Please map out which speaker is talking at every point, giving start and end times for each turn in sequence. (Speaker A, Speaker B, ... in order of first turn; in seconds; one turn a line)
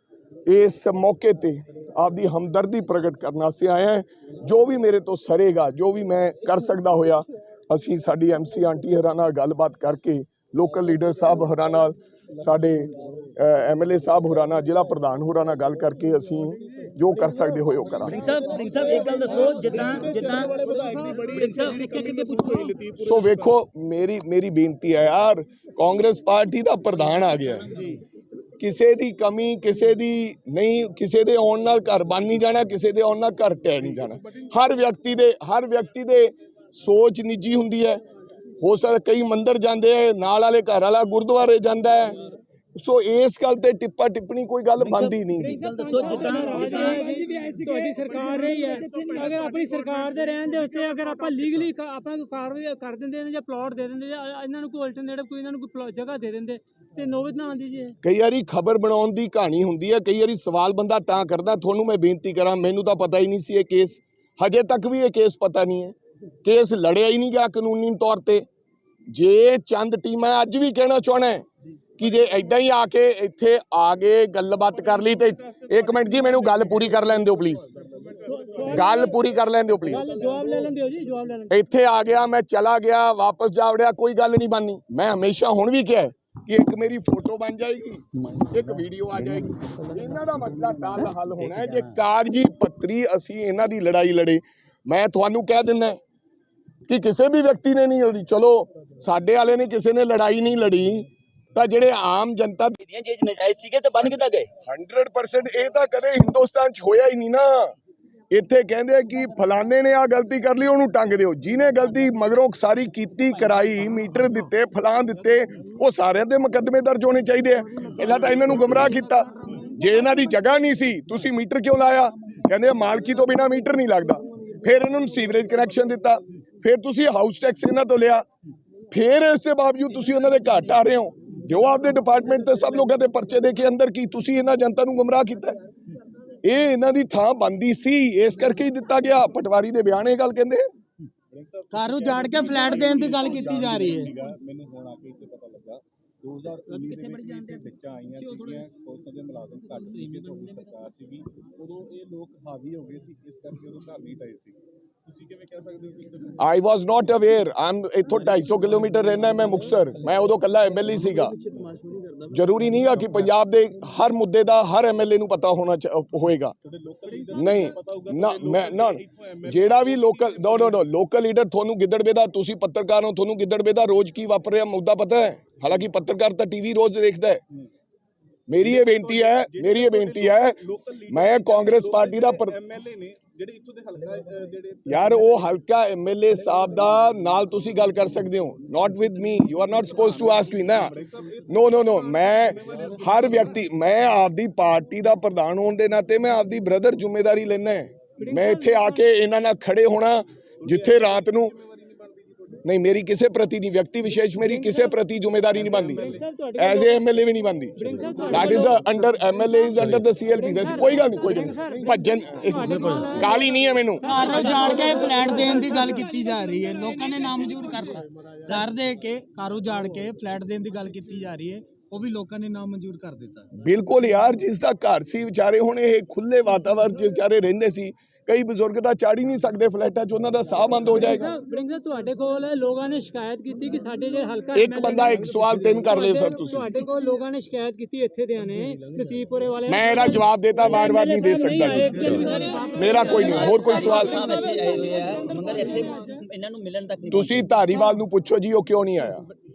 Speaker A: 0.5-18.2
Speaker B: 18.1-22.8
Speaker C: 19.5-21.6
Speaker A: 22.9-27.8
Speaker A: 28.6-38.0
Speaker A: 38.6-42.2
Speaker A: 42.8-45.6
Speaker B: 44.8-48.0
Speaker D: 45.5-58.0
Speaker B: 48.7-49.2
Speaker A: 58.0-68.5
Speaker A: 69.1-71.4
Speaker A: 72.0-77.7
Speaker D: 78.2-79.2
Speaker A: 78.7-80.2
Speaker D: 79.9-81.5
Speaker A: 81.5-96.0
Speaker A: 96.9-102.8
Speaker B: 102.8-104.5
Speaker A: 104.7-107.7
Speaker A: 108.3-128.2
Speaker A: 128.9-135.6
Speaker A: 136.4-140.7
Speaker E: 141.3-156.3
Speaker C: 141.7-144.1
Speaker A: 156.4-161.3
Speaker A: 162.3-166.6
Speaker E: 166.7-170.8
Speaker A: 167.3-177.4
Speaker A: 178.5-182.6
Speaker E: 178.6-185.0
Speaker A: 184.8-190.9
Speaker E: 190.8-193.5
Speaker A: 191.5-201.6
Speaker D: 198.2-199.0
Speaker E: 200.6-202.6
Speaker A: 202.7-214.4
Speaker D: 204.4-204.9
Speaker E: 205.5-206.2
Speaker D: 205.9-207.1
Speaker D: 207.8-209.1
Speaker D: 210.3-216.1
Speaker C: 214.0-223.4
Speaker A: 223.6-231.3
Speaker D: 231.0-246.1
Speaker A: 234.6-236.8
Speaker A: 239.7-244.3
Speaker B: 242.3-242.7
Speaker B: 243.3-247.5
Speaker A: 247.1-249.2